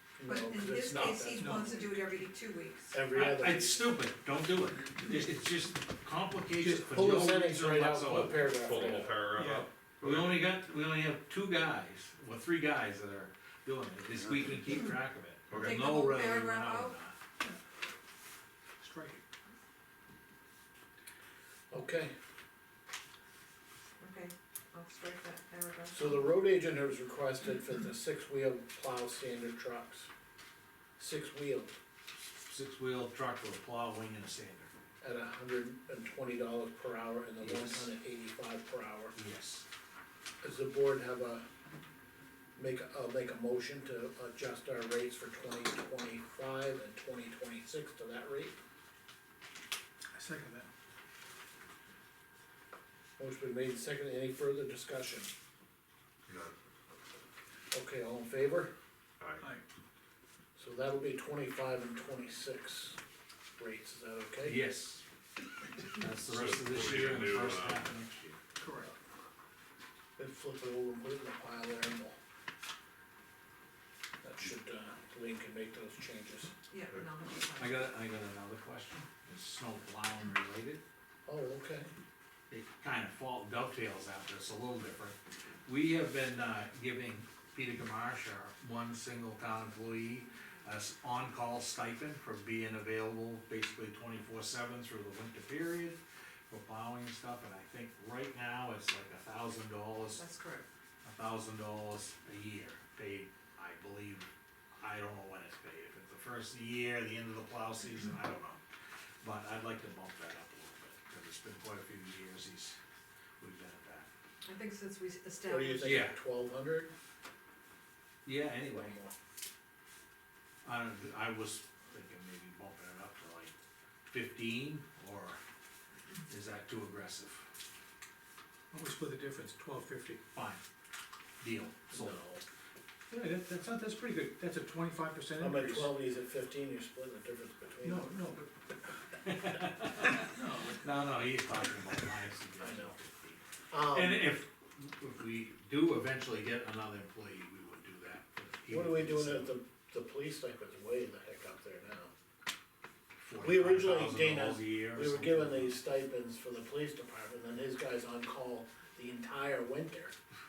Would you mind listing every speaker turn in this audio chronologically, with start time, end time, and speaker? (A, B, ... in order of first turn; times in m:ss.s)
0:00.2-0:02.0 A
0:00.2-0:03.0 B
0:01.3-0:01.7 C
0:02.9-0:03.8 A
0:03.1-0:08.5 D
0:06.6-0:07.0 C
0:06.9-0:09.2 A
0:08.6-0:10.4 E
0:09.3-0:09.7 C
0:10.0-0:17.2 D
0:15.5-0:15.8 E
0:15.5-0:17.0 B
0:18.8-0:19.2 C
0:21.7-0:22.1 A
0:24.0-0:26.4 B
0:25.9-0:30.1 A
0:31.0-0:31.8 A
0:32.4-0:34.7 D
0:35.0-0:39.1 A
0:37.4-0:37.9 D
0:39.1-0:39.6 D
0:40.4-0:41.4 A
0:42.6-0:48.5 A
0:50.1-0:50.7 C
0:53.2-0:55.3 A
0:56.3-0:56.5 E
0:57.7-0:58.7 A
0:59.2-0:59.4 E
1:00.6-1:03.0 A
1:03.6-1:04.6 A
1:04.4-1:05.0 D
1:05.8-1:08.4 D
1:06.2-1:07.9 E
1:08.6-1:08.9 C
1:10.2-1:12.2 A
1:14.2-1:16.5 A
1:16.7-1:17.8 B
1:17.6-1:20.8 D
1:21.2-1:21.9 A
1:22.5-1:36.0 D
1:36.5-1:40.2 D
1:40.2-1:40.6 B
1:41.0-1:44.2 D
1:44.8-1:48.6 D
1:49.2-1:52.8 D
1:53.4-1:54.1 D
1:54.4-1:56.0 B
1:55.4-1:56.9 A
1:55.8-1:56.2 D
1:58.2-1:59.0 D
1:58.7-1:59.1 A
2:00.6-2:03.5 D
2:04.1-2:05.4 D
2:06.3-2:07.4 D
2:08.7-2:10.2 C
2:10.3-2:10.6 D
2:11.4-2:12.2 D
2:11.9-2:12.4 A
2:13.1-2:15.9 C
2:15.4-2:18.1 A
2:17.8-2:18.5 C
2:19.2-2:29.5 D
2:20.2-2:20.9 C
2:22.6-2:22.9 A
2:23.7-2:24.3 A
2:28.7-2:32.1 A
2:33.2-2:35.8 D
2:33.4-2:40.1 A